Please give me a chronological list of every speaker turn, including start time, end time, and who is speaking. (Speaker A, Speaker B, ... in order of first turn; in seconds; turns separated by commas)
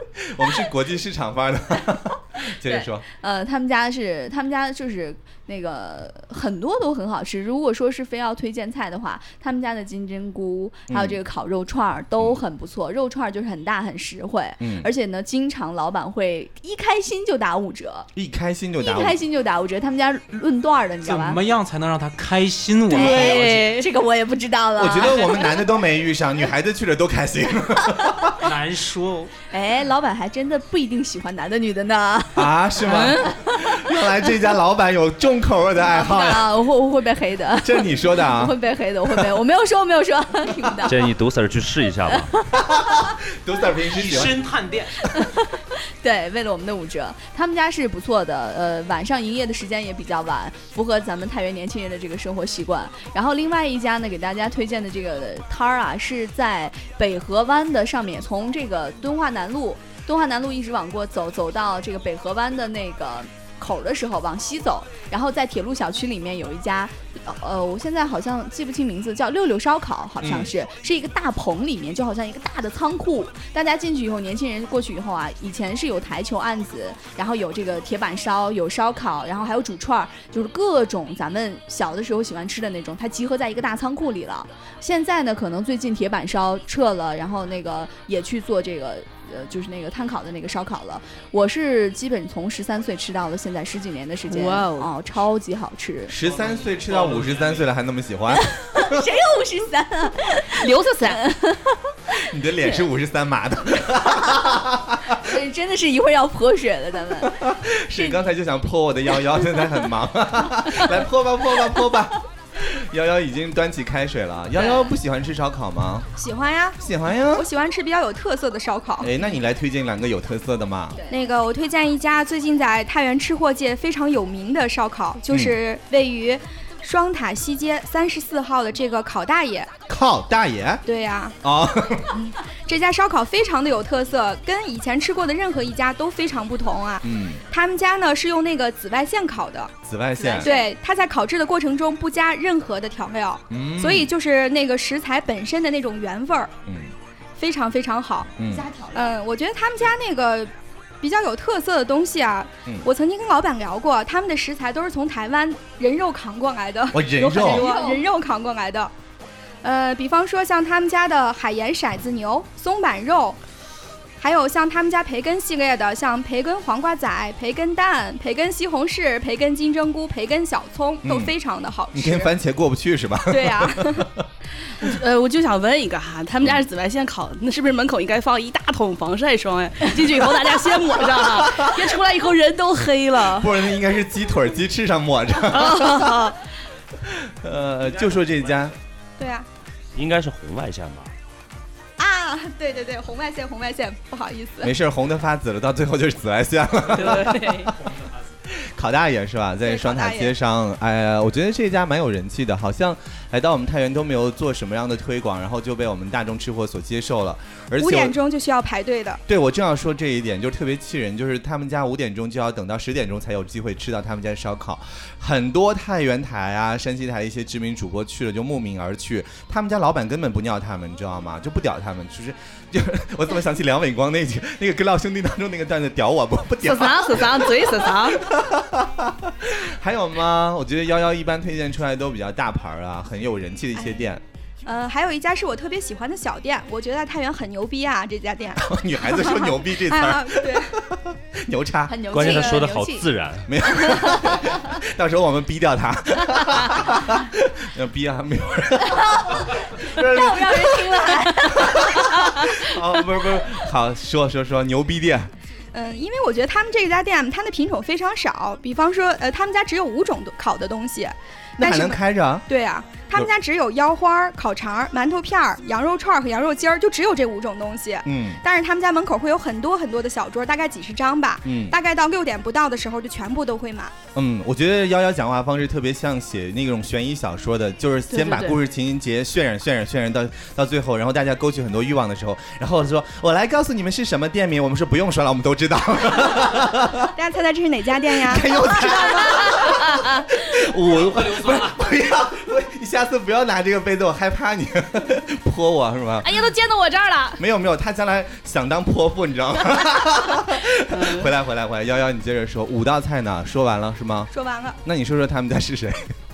Speaker A: 0.3-3.0, Speaker B: 2.6-18.1, Speaker A: 10.9-11.2, Speaker A: 14.6-14.9, Speaker A: 18.1-19.2, Speaker B: 18.8-21.4, Speaker C: 21.0-23.7, Speaker B: 22.9-25.6, Speaker D: 22.9-23.9, Speaker A: 24.8-28.4, Speaker C: 28.4-29.3, Speaker B: 29.5-34.4, Speaker A: 32.3-36.5, Speaker B: 35.9-41.0, Speaker A: 37.6-38.6, Speaker E: 40.8-42.3, Speaker B: 42.1-42.6, Speaker A: 42.6-44.3, Speaker C: 43.9-45.0, Speaker B: 45.0-96.2, Speaker A: 70.2-70.5, Speaker D: 94.3-94.9, Speaker A: 96.1-99.1, Speaker C: 96.3-97.6, Speaker B: 98.3-102.2, Speaker D: 100.5-101.3, Speaker A: 102.2-105.3, Speaker B: 105.2-107.5, Speaker A: 107.2-116.1, Speaker F: 116.2-119.1, Speaker A: 116.8-117.5, Speaker A: 119.0-121.0, Speaker B: 120.9-121.2, Speaker F: 121.1-129.7, Speaker A: 125.3-125.6, Speaker A: 129.9-130.8, Speaker F: 130.8-131.4, Speaker A: 131.4-132.1, Speaker F: 132.7-139.7, Speaker A: 137.0-137.4, Speaker A: 139.8-140.5, Speaker B: 140.3-140.7, Speaker F: 140.3-146.5, Speaker A: 143.5-144.1, Speaker A: 146.7-146.9, Speaker F: 147.4-148.3, Speaker A: 148.4-148.7, Speaker B: 148.4-149.2, Speaker F: 148.9-158.9, Speaker A: 156.9-157.8, Speaker B: 157.3-158.1, Speaker F: 159.6-163.4, Speaker F: 164.2-172.3, Speaker A: 171.0-171.3, Speaker A: 171.9-174.2, Speaker F: 173.3-174.1, Speaker D: 174.8-183.6, Speaker A: 183.4-186.2, Speaker D: 185.5-186.4, Speaker A: 187.1-188.7, Speaker F: 189.2-189.5, Speaker E: 189.9-191.1, Speaker F: 192.0-194.7, Speaker A: 194.6-197.9, Speaker D: 196.9-197.7, Speaker A: 198.5-208.2, Speaker F: 199.6-200.3, Speaker F: 207.8-209.2, Speaker A: 209.3-234.2, Speaker D: 226.6-228.3, Speaker F: 234.6-240.7, Speaker A: 238.6-242.5, Speaker B: 241.9-243.1, Speaker E: 242.1-243.8, Speaker A: 243.4-255.3, Speaker B: 243.6-244.6, Speaker B: 248.9-252.6, Speaker F: 255.7-273.9, Speaker A: 261.6-262.4, Speaker A: 268.0-268.4, Speaker A: 271.4-271.8, Speaker A: 274.1-287.1, Speaker D: 278.1-278.6, Speaker F: 287.1-289.6, Speaker A: 288.2-296.5, Speaker D: 296.2-297.4, Speaker A: 297.4-304.3, Speaker D: 300.9-301.3, Speaker F: 304.3-304.8, Speaker A: 304.8-306.1